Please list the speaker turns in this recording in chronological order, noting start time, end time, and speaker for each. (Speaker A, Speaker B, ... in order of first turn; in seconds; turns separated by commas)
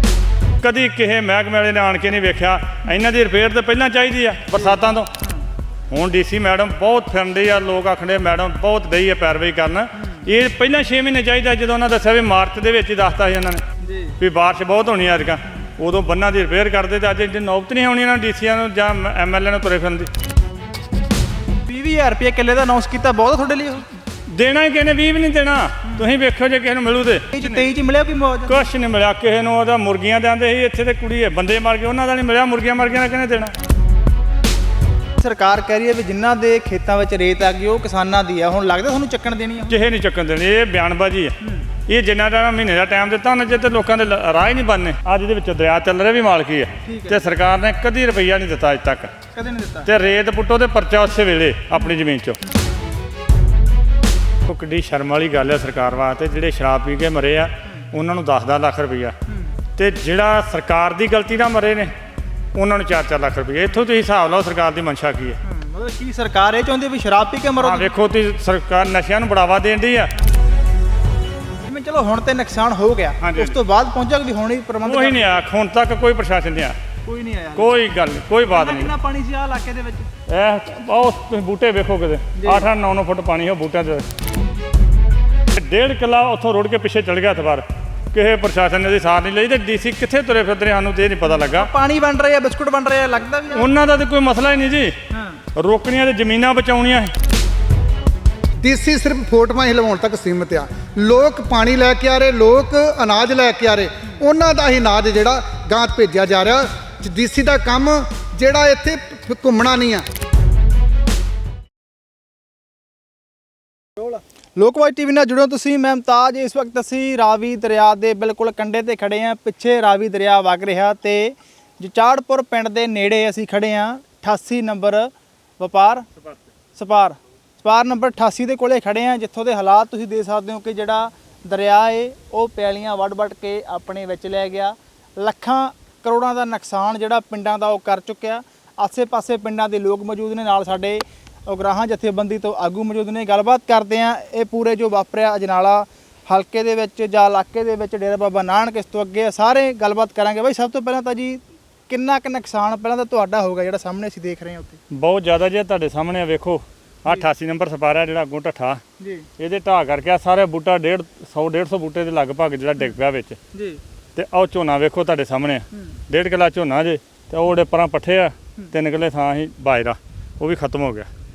Speaker A: 0.6-5.1, Speaker B: 4.5-5.4, Speaker A: 5.9-13.6, Speaker B: 10.0-10.2, Speaker B: 13.8-14.2, Speaker A: 14.2-20.1, Speaker B: 21.5-23.9, Speaker A: 24.3-27.7, Speaker B: 27.3-28.6, Speaker A: 28.5-33.5, Speaker B: 35.2-39.8, Speaker A: 39.7-41.3, Speaker B: 41.4-41.7, Speaker A: 41.9-49.1, Speaker B: 46.8-47.3, Speaker B: 49.3-49.9, Speaker A: 49.9-52.4, Speaker A: 54.5-59.1, Speaker B: 59.3-59.5, Speaker A: 59.8-61.9, Speaker A: 62.5-65.4, Speaker B: 65.4-67.9, Speaker A: 67.6-70.1, Speaker B: 71.7-75.4, Speaker A: 73.2-73.5, Speaker A: 74.8-76.8, Speaker B: 77.0-77.7, Speaker A: 77.5-78.9, Speaker B: 78.5-80.1, Speaker A: 80.3-84.0, Speaker B: 82.4-82.7, Speaker A: 85.5-91.7, Speaker B: 91.2-93.7, Speaker A: 93.5-94.9, Speaker B: 95.1-95.4, Speaker A: 95.5-97.1, Speaker C: 98.6-110.0, Speaker B: 114.5-126.1, Speaker B: 126.8-154.8, Speaker A: 154.9-158.8, Speaker B: 159.0-159.2, Speaker A: 159.4-163.4, Speaker B: 163.5-163.8, Speaker A: 164.1-171.1